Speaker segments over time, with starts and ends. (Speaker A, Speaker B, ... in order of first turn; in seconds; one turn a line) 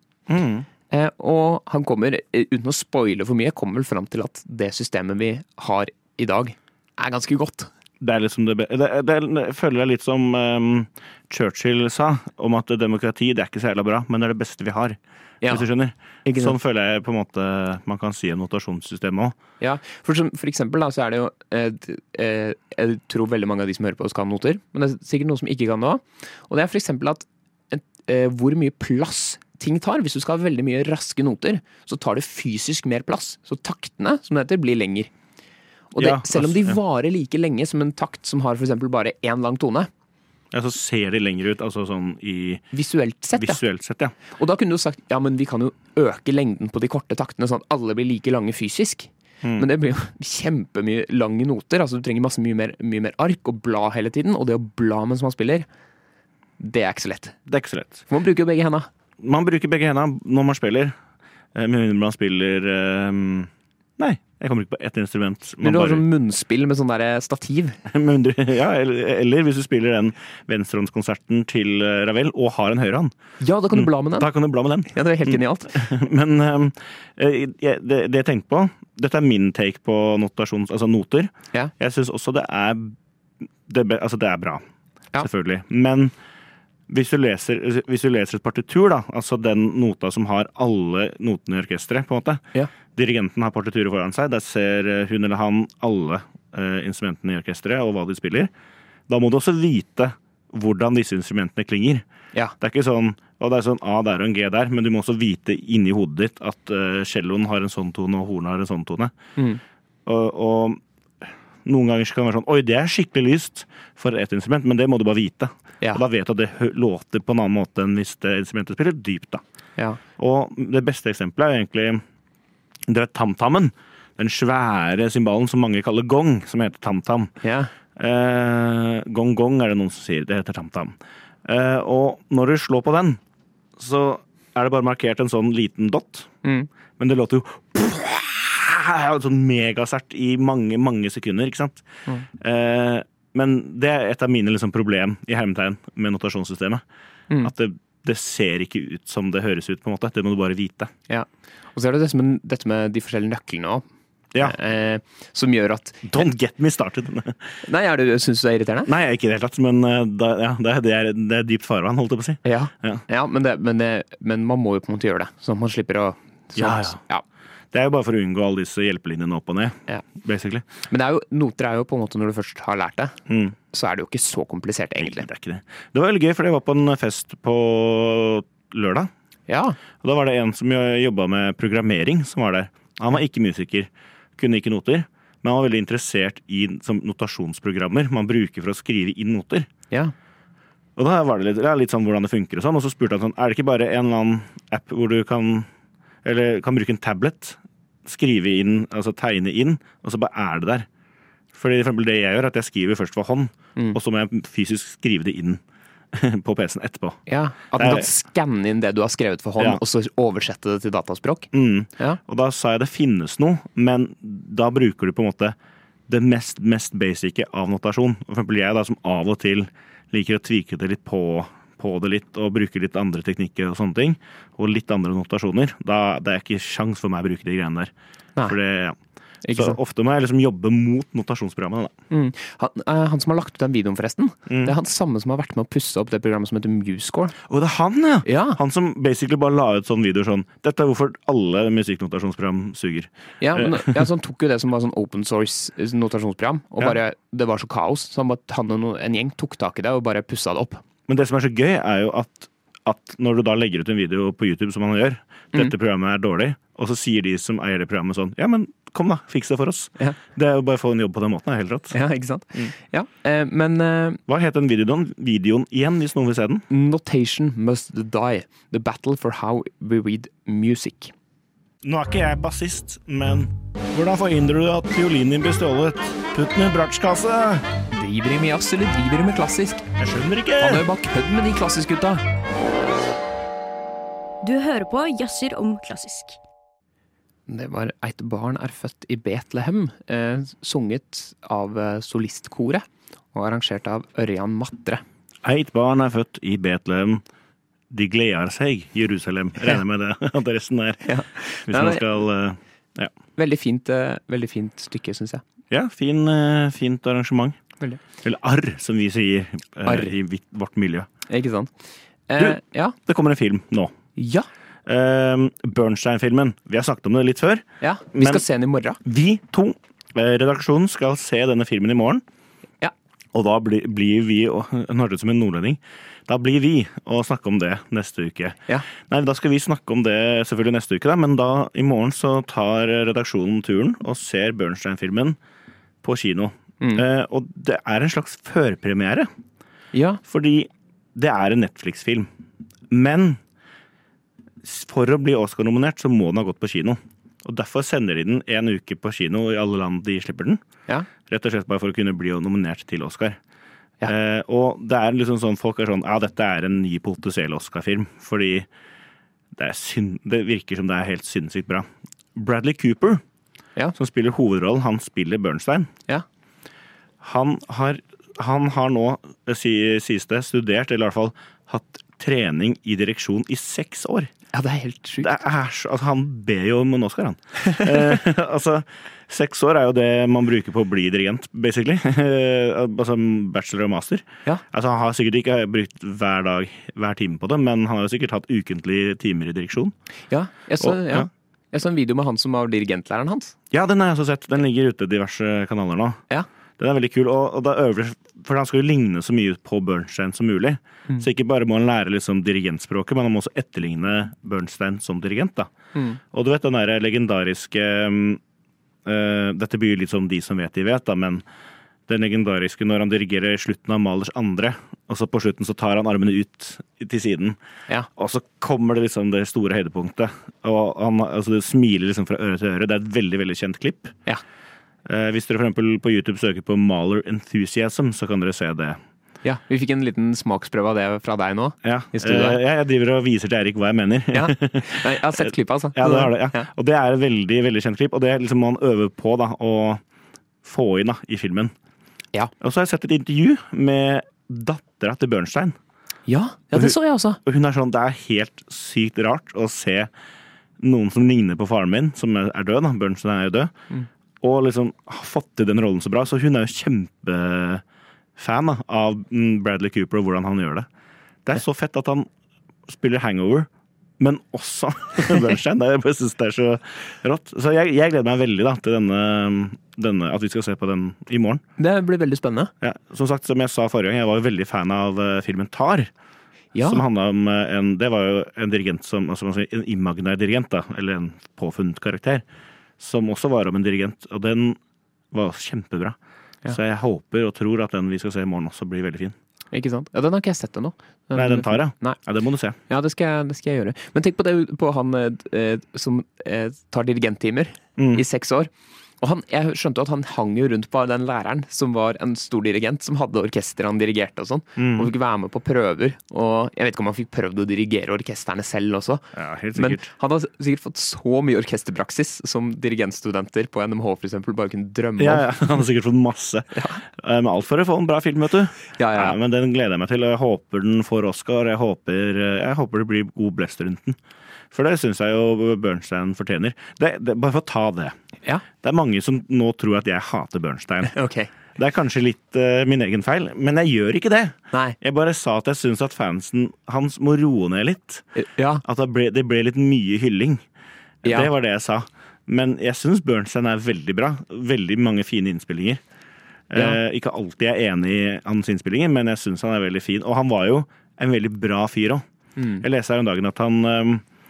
Speaker A: 0.3-0.7
Speaker B: 0.9-7.7
Speaker A: 8.0-19.4
Speaker B: 15.4-15.7
Speaker B: 16.2-16.6
Speaker B: 19.6-35.1
Speaker B: 35.9-39.9
Speaker A: 36.0-36.8
Speaker A: 40.5-42.6
Speaker B: 42.7-43.6
Speaker A: 43.4-44.1
Speaker B: 44.3-55.6
Speaker A: 49.4-49.7
Speaker B: 56.6-57.4
Speaker A: 57.5-58.0
Speaker B: 58.1-58.9
Speaker A: 59.2-60.9
Speaker A: 61.5-66.0
Speaker B: 65.6-67.8
Speaker A: 67.9-73.1
Speaker B: 73.4-74.3
Speaker A: 73.7-83.0
Speaker B: 74.9-75.8
Speaker A: 83.7-84.6
Speaker A: 85.2-86.1
Speaker A: 86.9-98.5
Speaker A: 99.1-102.0
Speaker A: 102.6-109.1
Speaker A: 110.0-119.4
Speaker A: 120.2-122.0
Speaker A: 122.9-127.3
Speaker B: 127.4-127.7
Speaker A: 128.0-133.2
Speaker A: 133.8-136.3
Speaker B: 136.4-136.7
Speaker A: 137.0-141.8
Speaker A: 142.4-146.8
Speaker A: 147.4-150.9
Speaker B: 151.1-153.8
Speaker B: 154.4-156.2
Speaker A: 156.0-157.4
Speaker B: 157.6-158.9
Speaker A: 158.8-163.0
Speaker B: 162.4-167.2
Speaker A: 166.6-167.0
Speaker A: 167.7-170.7
Speaker B: 170.9-173.2
Speaker A: 173.3-173.5
Speaker B: 173.7-175.3
Speaker A: 175.0-179.1
Speaker B: 179.5-179.8
Speaker A: 180.0-189.7
Speaker A: 191.0-195.7
Speaker A: 196.2-200.9
Speaker A: 201.5-205.6
Speaker A: 206.1-207.2
Speaker B: 207.3-212.2
Speaker A: 207.7-208.1
Speaker A: 211.5-215.6
Speaker A: 216.1-227.9
Speaker A: 228.4-229.0
Speaker B: 229.4-229.8
Speaker A: 229.5-231.9
Speaker B: 232.1-237.3
Speaker A: 234.5-234.7
Speaker A: 237.5-244.1
Speaker B: 238.2-238.6
Speaker B: 243.4-250.8
Speaker A: 251.1-262.0
Speaker B: 261.9-264.2
Speaker A: 264.3-266.6
Speaker B: 266.7-271.1
Speaker A: 271.8-277.7
Speaker B: 277.9-279.9
Speaker A: 280.0-280.8
Speaker B: 280.6-282.2
Speaker C: 284.4-286.4
Speaker B: 287.5-295.0
Speaker A: 295.4-297.2
Speaker A: 297.9-301.0
Speaker B: 301.0-302.0
Speaker A: 301.6-303.1
Speaker B: 303.4-305.4
Speaker A: 305.7-307.6
Speaker A: 308.2-311.1
Speaker B: 309.9-310.1
Speaker B: 311.3-311.7
Speaker B: 312.3-312.9
Speaker A: 312.4-313.9
Speaker B: 314.1-314.5
Speaker A: 314.9-318.4
Speaker B: 317.8-319.0
Speaker A: 319.0-322.2
Speaker A: 323.3-335.4
Speaker A: 336.0-339.3
Speaker B: 339.9-340.2
Speaker A: 340.3-342.3
Speaker A: 342.9-343.4
Speaker A: 344.6-350.6
Speaker A: 351.2-353.4
Speaker A: 354.0-358.7
Speaker A: 359.5-363.2
Speaker A: 363.9-365.9
Speaker A: 367.2-374.3
Speaker B: 374.5-375.3
Speaker A: 375.2-389.9
Speaker B: 390.3-393.5
Speaker A: 390.8-391.3
Speaker A: 393.7-396.2
Speaker A: 396.8-405.7
Speaker A: 406.3-408.4
Speaker A: 409.0-411.4
Speaker A: 412.1-417.6
Speaker A: 418.1-424.1
Speaker A: 425.1-429.0
Speaker B: 429.4-432.6
Speaker A: 431.8-440.0
Speaker B: 434.3-436.7
Speaker A: 440.6-441.7
Speaker A: 442.6-445.8
Speaker B: 446.3-447.4
Speaker A: 446.7-450.1
Speaker A: 450.8-453.7
Speaker A: 454.4-457.8
Speaker A: 458.4-460.9
Speaker A: 461.4-462.3
Speaker A: 462.9-471.6
Speaker B: 471.8-472.7
Speaker A: 472.8-476.1
Speaker B: 476.7-477.0
Speaker A: 476.8-482.4
Speaker A: 483.0-484.8
Speaker A: 485.3-486.1
Speaker A: 486.7-489.4
Speaker B: 489.7-492.2
Speaker A: 491.3-492.8
Speaker B: 492.9-498.7
Speaker A: 498.0-498.2
Speaker B: 499.2-515.7
Speaker A: 504.8-505.1
Speaker A: 509.3-510.1
Speaker A: 515.2-524.2
Speaker B: 516.7-517.0
Speaker B: 518.9-519.4
Speaker A: 524.7-528.1
Speaker A: 528.8-531.1
Speaker B: 531.1-531.5
Speaker A: 531.7-538.2
Speaker B: 538.4-538.8
Speaker A: 538.8-540.6
Speaker A: 541.2-546.0
Speaker A: 546.7-552.2
Speaker B: 552.6-552.8
Speaker A: 552.8-554.2